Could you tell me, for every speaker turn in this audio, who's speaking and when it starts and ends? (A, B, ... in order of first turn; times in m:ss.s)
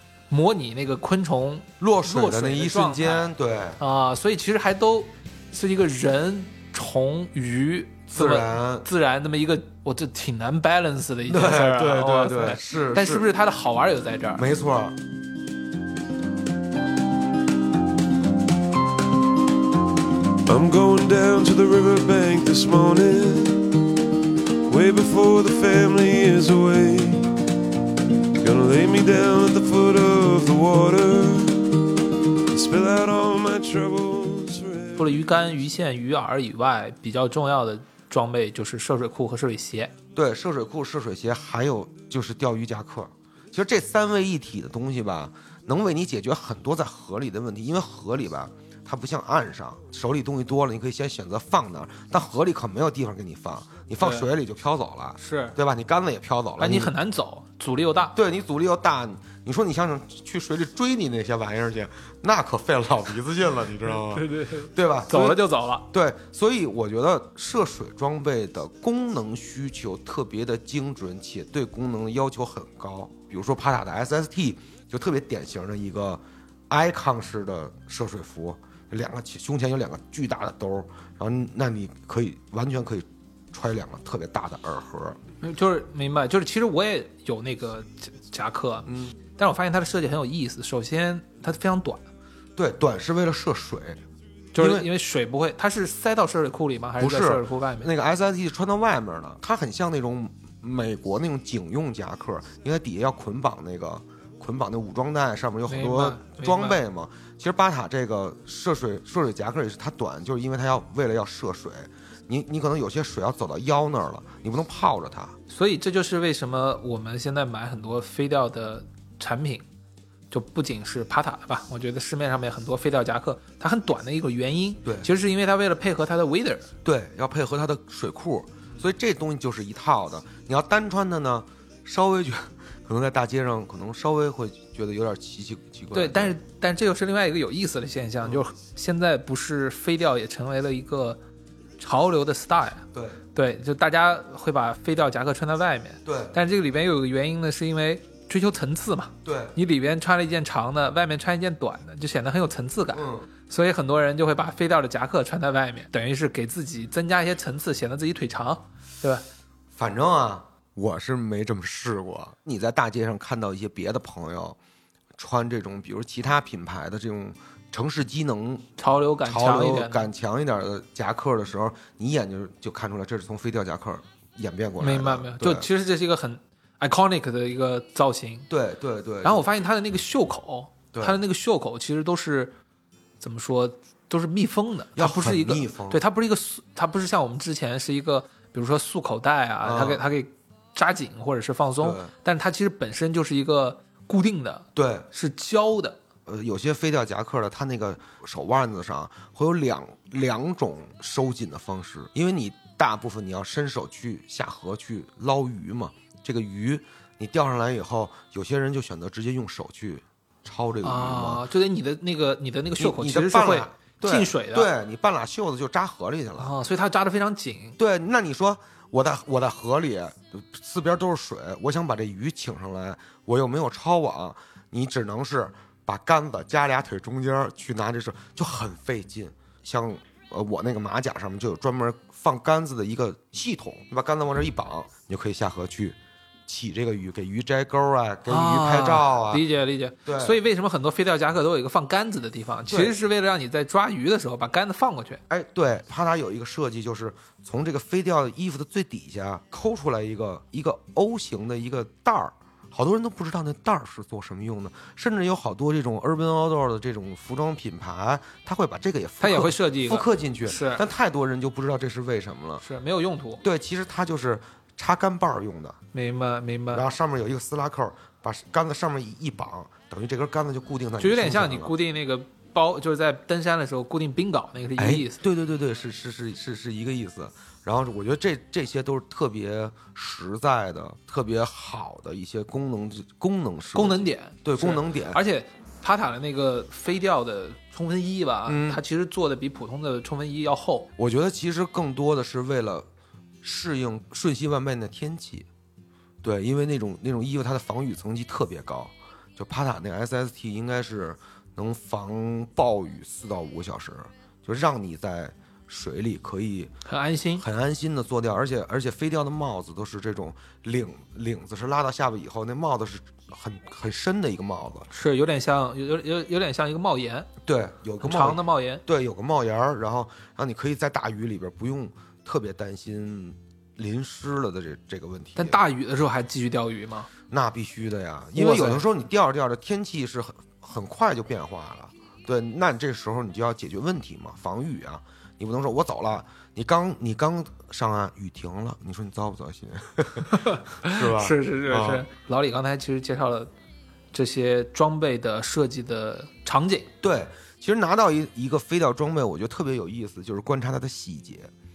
0:00.3-0:14.5 A
0:01.8-0:03.8 B
0:08.1-0:08.9 B
0:11.3-0:13.3 B
0:14.4-0:15.0 B
0:20.5-0:23.7 C
0:24.7-0:27.3 C
0:28.4-0:31.9 C
0:32.5-0:35.2 C
0:35.0-0:39.9 A
0:40.2-0:56.9 B
0:54.0-0:54.3 A
0:55.2-0:55.6 A
0:56.6-0:58.2 A
0:58.1-1:25.2 B
1:03.9-1:05.9 A
1:25.4-1:32.0 A
1:28.9-1:29.2 B
1:32.6-1:34.0 B
1:34.5-1:37.9 A
1:34.6-1:34.9 B
1:37.0-1:55.4 B
1:45.7-1:46.8 A
1:55.5-1:59.6 A
2:00.3-2:06.7 A
2:04.8-2:05.1 B
2:06.8-2:16.4 B
2:15.9-2:21.2 A
2:21.8-2:39.2 A
2:22.9-2:23.2 B
2:26.0-2:26.3 B
2:29.2-2:29.6 B
2:32.9-2:33.3 B
2:39.8-2:44.6 B
2:45.2-2:48.7 B
2:48.8-2:50.1 A
2:49.2-2:55.7 B
2:54.8-2:58.5 A
2:58.5-2:59.4 B
2:59.2-3:02.5 A
3:00.9-3:01.2 B
3:03.2-3:16.0 A
3:05.0-3:06.0 B
3:09.6-3:10.0 B
3:11.8-3:12.1 B
3:14.8-3:15.1 B
3:16.3-3:31.4 B
3:30.8-3:34.7 A
3:32.8-3:36.5 B
3:36.4-3:37.8 A
3:37.8-3:59.4 B
3:58.3-4:05.2 A
4:00.0-4:00.4 B
4:02.7-4:03.0 B
4:05.3-4:22.6 B
4:19.2-4:20.8 A
4:22.6-4:23.4 A
4:23.4-4:25.8 B
4:25.9-4:26.9 A
4:26.7-4:31.7 B
4:31.0-4:35.2 A
4:34.8-4:45.2 B
4:43.8-4:50.9 A
4:48.5-4:48.8 B
4:51.0-4:52.9 B
4:53.4-4:55.5 B
4:56.2-5:06.8 B
5:06.8-5:07.4 A
5:07.4-5:14.9 B
5:14.9-5:17.3 A
5:17.4-5:25.6 B
5:18.0-5:18.8 A
5:25.4-5:27.1 A
5:27.3-5:42.1 B
5:28.4-5:28.8 A
5:40.3-5:43.5 A
5:44.1-5:46.9 A
5:47.0-5:51.5 B